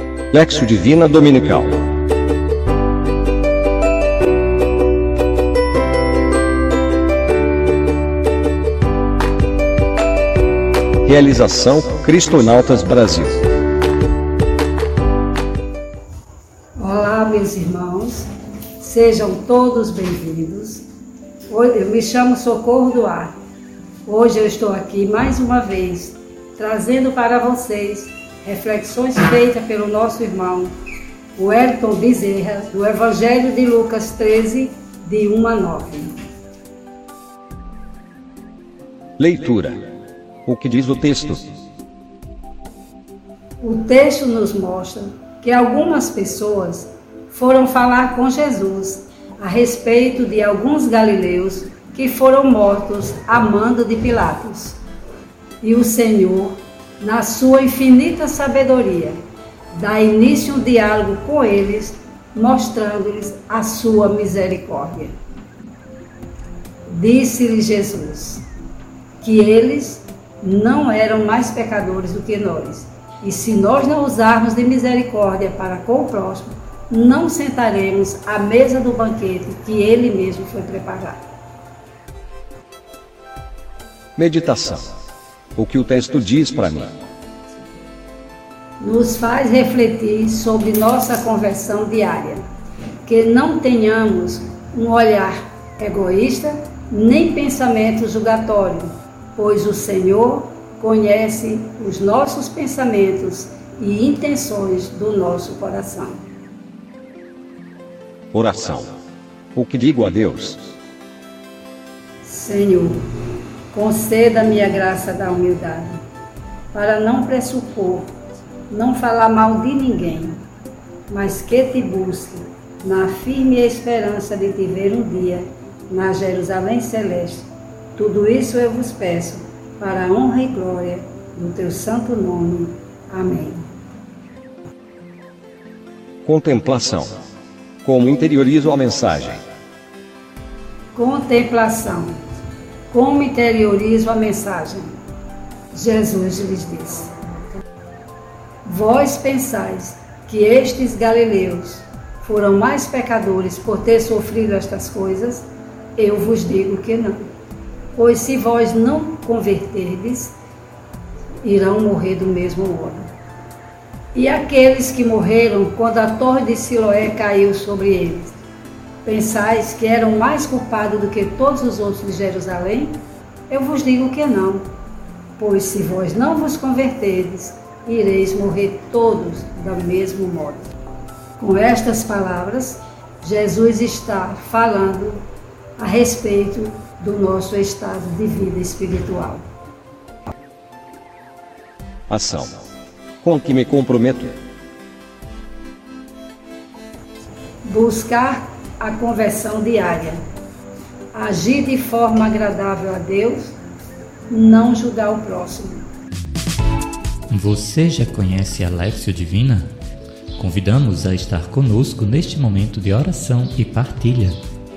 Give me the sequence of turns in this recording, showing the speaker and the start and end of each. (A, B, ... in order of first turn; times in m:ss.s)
0:00.3-0:01.8 A
0:11.0-0:13.4 A
0:16.8-0:20.8 B
0:21.5-0:23.3 B
0:24.0-0:30.7 B
0:31.4-0:36.1 B
0:39.2-0:39.8 A
0:40.4-0:41.4 A
0:43.6-0:54.8 B
0:55.6-0:59.2 B
0:59.7-1:05.2 B
1:06.9-1:08.4 B
1:09.2-1:21.2 B
1:24.2-1:24.9 A
1:25.6-1:26.9 A
1:28.8-1:32.4 B
1:33.0-1:46.2 B
1:48.3-1:48.9 A
1:49.5-1:50.6 A
1:52.2-1:53.0 B
1:53.7-1:56.0 B
1:56.7-1:58.1 B
1:58.7-2:00.4 B
2:01.1-2:13.7 B
2:16.2-2:17.1 A
2:17.8-2:19.4 A
2:20.9-2:22.2 B
2:22.9-2:25.0 B
2:25.7-2:27.1 B
2:28.6-2:35.4 B
2:36.0-2:37.2 B
2:37.9-2:40.3 B
2:41.4-2:43.0 B
2:44.1-2:48.4 B
2:49.0-2:54.6 B
2:55.4-3:00.7 B
3:01.4-3:05.2 B
3:05.8-3:09.4 B
3:12.1-3:12.5 A
3:13.2-3:14.3 A
3:17.6-3:20.2 B
3:21.1-3:23.5 B
3:24.3-3:25.8 B
3:27.3-3:29.7 C
3:30.4-3:34.4 C